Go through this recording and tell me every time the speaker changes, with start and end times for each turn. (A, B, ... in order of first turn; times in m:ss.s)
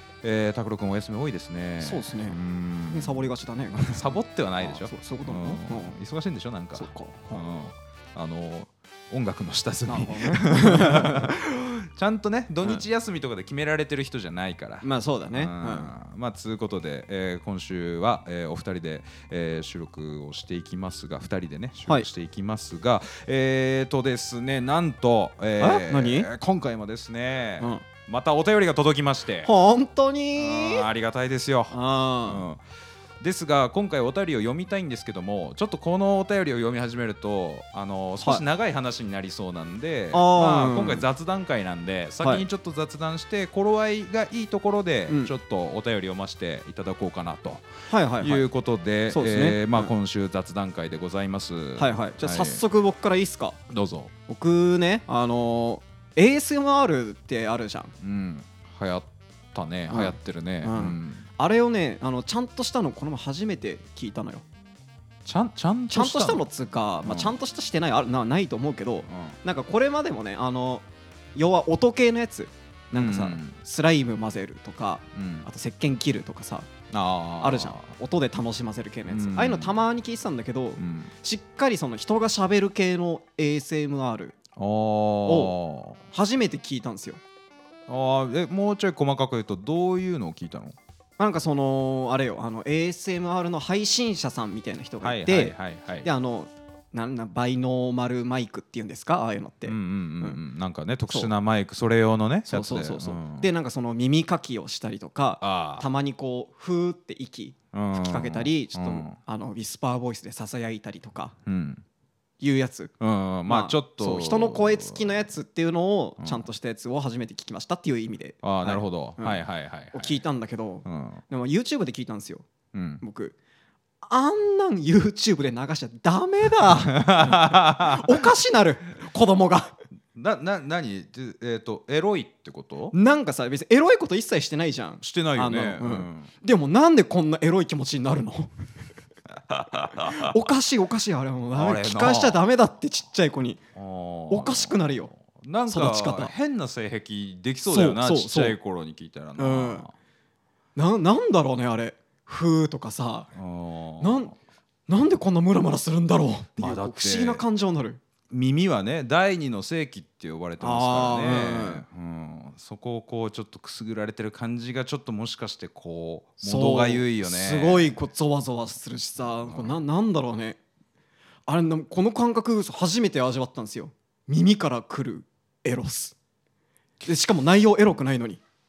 0:00.2-0:29.5 A
0:01.8-0:05.9 B
0:06.8-0:07.4 B
0:09.9-0:11.3 B
0:14.8-0:15.9 B
0:25.6-0:26.3 B
0:27.6-0:27.8 B
0:29.4-0:30.8 B
0:30.4-0:32.6 A
0:31.7-0:32.4 B
0:33.2-0:47.6 A
0:40.1-0:41.1 B
0:47.9-0:48.4 B
0:48.2-0:52.6 A
0:49.1-0:49.9 B
0:51.8-0:53.6 B
0:53.7-0:54.1 A
0:54.3-0:57.9 B
0:58.0-1:01.2 A
0:59.9-1:04.4 B
1:05.2-1:06.4 A
1:05.9-1:16.7 B
1:07.0-1:07.3 A
1:09.1-1:09.4 A
1:12.9-1:13.6 A
1:15.1-1:15.5 A
1:16.9-1:17.9 A
1:17.4-1:24.3 B
1:19.1-1:19.8 A
1:20.8-1:21.1 A
1:24.6-1:26.0 A
1:25.2-1:25.5 B
1:26.1-1:27.2 B
1:27.9-1:30.8 A
1:31.2-1:40.4 B
1:35.0-1:36.1 A
1:39.6-1:43.5 A
1:42.5-1:51.4 B
1:45.4-1:45.8 A
1:47.7-1:49.2 A
1:51.4-1:51.8 A
1:52.4-1:52.9 B
1:53.0-1:55.2 A
1:53.5-2:02.4 B
1:56.2-1:56.4 A
1:58.4-2:00.2 A
2:00.8-2:01.2 A
2:02.7-2:03.0 A
2:03.0-2:03.4 B
2:04.0-2:09.8 B
2:06.8-2:08.2 A
2:10.1-2:12.9 A
2:12.9-2:18.5 B
2:15.0-2:16.3 A
2:19.5-2:20.3 A
2:19.8-2:23.6 B
2:21.5-2:22.4 A
2:23.7-2:29.9 A
2:24.3-2:25.1 B
2:25.7-2:26.3 B
2:27.7-2:28.6 B
2:29.4-2:29.8 B
2:30.8-2:33.3 B
2:33.3-2:34.3 A
2:34.0-2:34.3 B
2:34.9-2:38.0 B
2:36.6-2:37.4 A
2:38.3-2:47.9 A
2:40.6-2:41.8 B
2:46.4-2:50.6 B
2:49.4-2:49.8 A
2:51.5-2:56.2 B
2:57.0-2:58.4 B